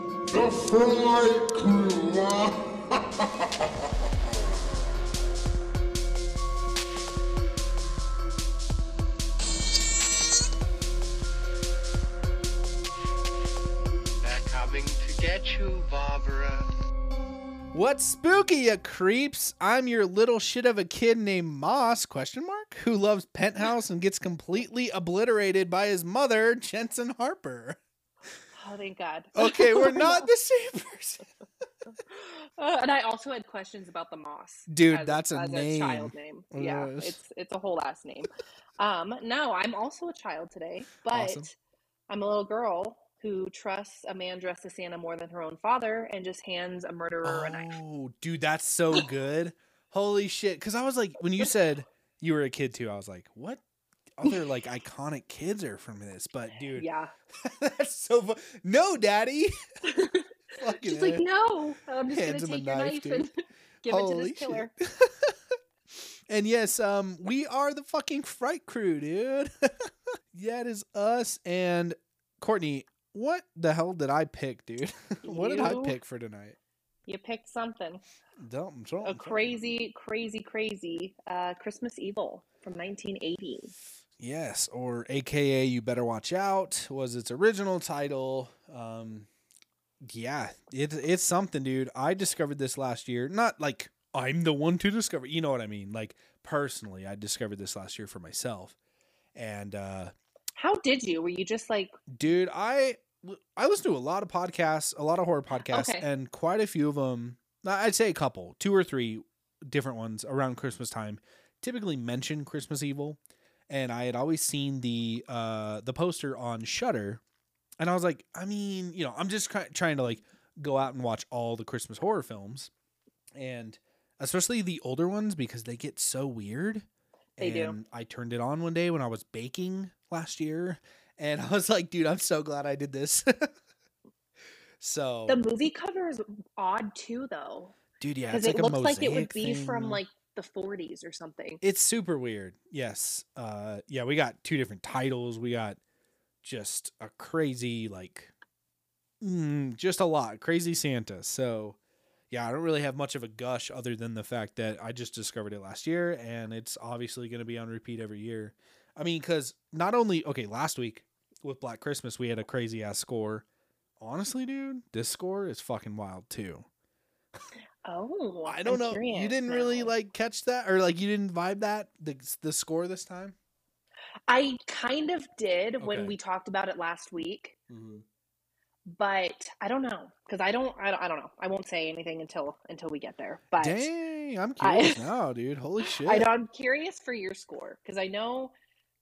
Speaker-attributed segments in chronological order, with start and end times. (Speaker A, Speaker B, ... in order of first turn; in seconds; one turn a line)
Speaker A: 0.3-3.2
Speaker B: 14.2-16.7
Speaker C: 17.7-27.8
Speaker D: 28.6-30.3
Speaker C: 29.4-31.2
Speaker D: 32.1-41.5
Speaker C: 34.7-37.1
Speaker C: 41.1-41.5
Speaker D: 42.1-47.8
Speaker C: 47.2-53.6
Speaker C: 54.2-59.6
Speaker D: 56.8-57.1
Speaker D: 59.8-64.7
Speaker C: 60.6-61.2
Speaker C: 62.1-63.3
Speaker C: 63.9-65.3
Speaker C: 65.9-76.6
Speaker D: 75.2-75.9
Speaker D: 77.1-78.0
Speaker C: 78.4-79.4
Speaker D: 79.0-83.7
Speaker C: 84.2-89.3
Speaker C: 90.0-98.7
Speaker C: 99.3-100.1
Speaker D: 100.6-102.0
Speaker C: 102.1-117.2
Speaker D: 105.7-106.0
Speaker C: 117.8-122.7
Speaker C: 123.3-126.8
Speaker D: 127.4-127.8
Speaker C: 127.4-133.5
Speaker C: 134.8-135.4
Speaker D: 135.3-137.8
Speaker C: 138.0-140.0
Speaker D: 138.3-141.6
Speaker C: 141.6-145.8
Speaker C: 146.4-148.3
Speaker C: 149.2-151.8
Speaker C: 152.3-163.4
Speaker C: 164.0-166.7
Speaker D: 167.8-169.9
Speaker C: 168.4-173.3
Speaker D: 174.3-177.6
Speaker C: 175.8-176.1
Speaker C: 177.7-178.0
Speaker D: 178.9-183.9
Speaker C: 183.6-186.3
Speaker D: 184.6-185.1
Speaker D: 186.0-188.5